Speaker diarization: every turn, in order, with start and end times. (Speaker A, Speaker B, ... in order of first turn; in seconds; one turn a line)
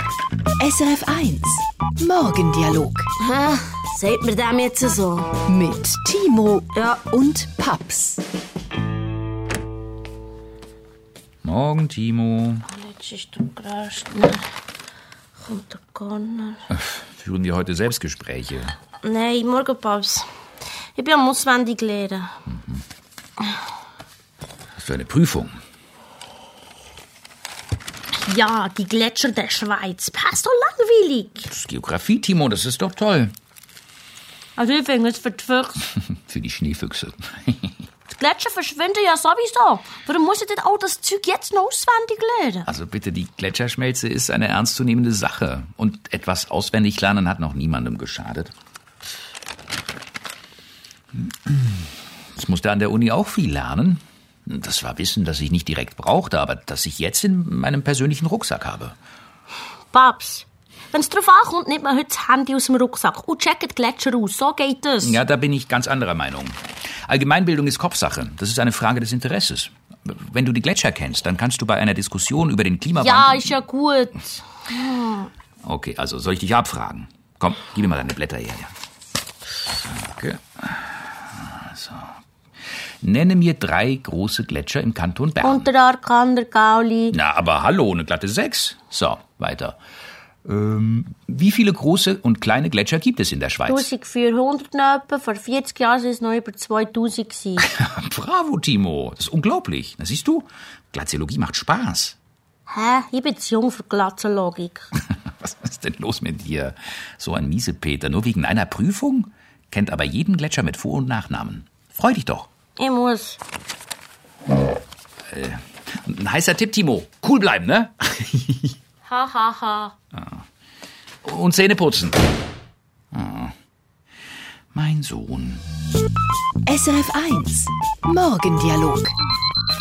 Speaker A: 0.6-3.1
Speaker B: 3.2-5.3
Speaker A: 5.5-8.2
Speaker B: 6.7-7.0
Speaker C: 11.4-12.7
Speaker B: 12.7-14.4
Speaker B: 15.4-16.6
Speaker C: 16.7-18.8
Speaker B: 19.0-20.3
Speaker B: 21.0-22.3
Speaker C: 24.8-25.5
Speaker B: 28.2-31.5
Speaker C: 31.5-33.3
Speaker B: 34.6-35.9
Speaker C: 36.3-37.7
Speaker B: 38.1-42.7
Speaker C: 42.7-48.5
Speaker C: 51.2-51.7
Speaker C: 52.4-59.0
Speaker B: 59.9-65.2
Speaker C: 65.0-73.6
Speaker B: 73.0-75.1
Speaker C: 75.6-78.7
Speaker C: 79.8-82.1
Speaker C: 83.0-85.7
Speaker B: 85.4-87.2
Speaker C: 87.1-89.8
Speaker C: 90.5-93.9
Speaker B: 93.7-97.7
Speaker C: 97.6-102.2
Speaker B: 102.7-104.8
Speaker C: 105.4-112.5
Speaker B: 112.8-113.4
Speaker C: 115.3-118.7
Speaker B: 119.1-119.9
Speaker C: 121.2-122.2
Speaker C: 123.1-123.5
Speaker C: 124.7-125.6
Speaker A: 126.7-129.1